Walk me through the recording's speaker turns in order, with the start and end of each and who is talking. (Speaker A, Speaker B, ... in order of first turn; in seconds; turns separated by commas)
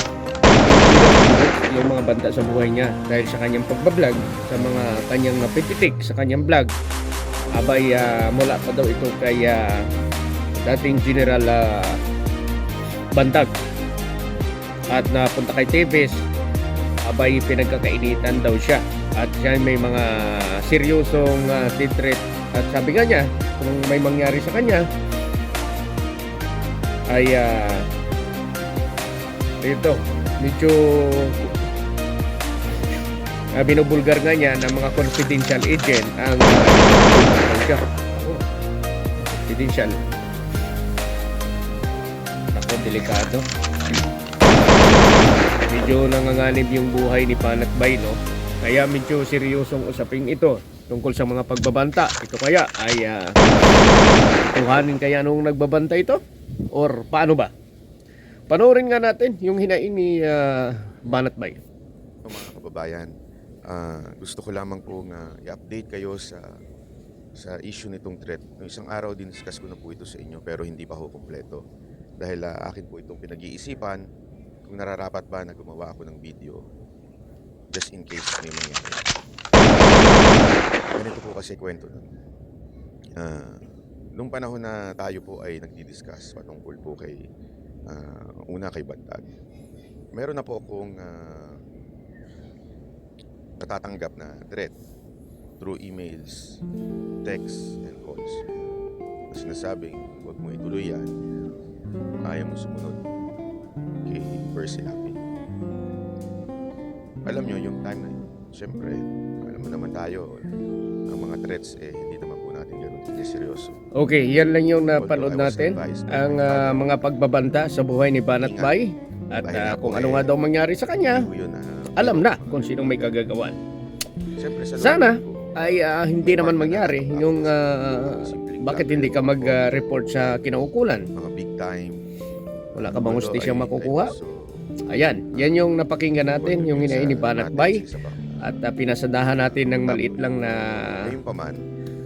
Speaker A: 0.5-6.7, Speaker A: 7.6-9.6, Speaker A: 10.6-12.0, Speaker A: 13.2-13.5, Speaker A: 14.9-16.2, Speaker A: 17.1-24.8, Speaker A: 27.1-27.6, Speaker A: 29.6-31.4, Speaker A: 33.6-38.4, Speaker A: 39.2-40.0, Speaker A: 42.5-43.5, Speaker A: 44.5-45.1, Speaker A: 45.7-53.2, Speaker A: 54.3-56.2, Speaker A: 56.8-57.5, Speaker A: 58.5-61.6, Speaker B: 62.2-63.1, Speaker B: 63.7-66.6, Speaker B: 67.4-71.6, Speaker B: 72.2-74.0, Speaker B: 74.7-76.7, Speaker B: 77.7-79.0, Speaker B: 79.7-82.1, Speaker B: 83.2-87.2, Speaker B: 87.9-89.3, Speaker B: 90.1-91.6, Speaker B: 93.6-94.7, Speaker B: 95.6-96.6, Speaker B: 97.2-98.4, Speaker B: 99.3-101.1, Speaker B: 102.2-103.0, Speaker B: 104.1-105.2, Speaker B: 107.2-110.4, Speaker B: 111.1-113.8, Speaker A: 114.0-121.3, Speaker B: 115.0-116.9, Speaker B: 118.4-118.7, Speaker B: 119.4-120.3, Speaker B: 121.1-123.1, Speaker A: 122.0-123.6, Speaker B: 124.4-129.8, Speaker A: 124.8-131.1, Speaker B: 131.1-132.0, Speaker A: 132.8-134.1, Speaker B: 132.8-134.7, Speaker A: 134.9-137.8, Speaker B: 135.3-135.6, Speaker B: 136.3-138.5, Speaker A: 138.4-141.0, Speaker B: 139.3-141.6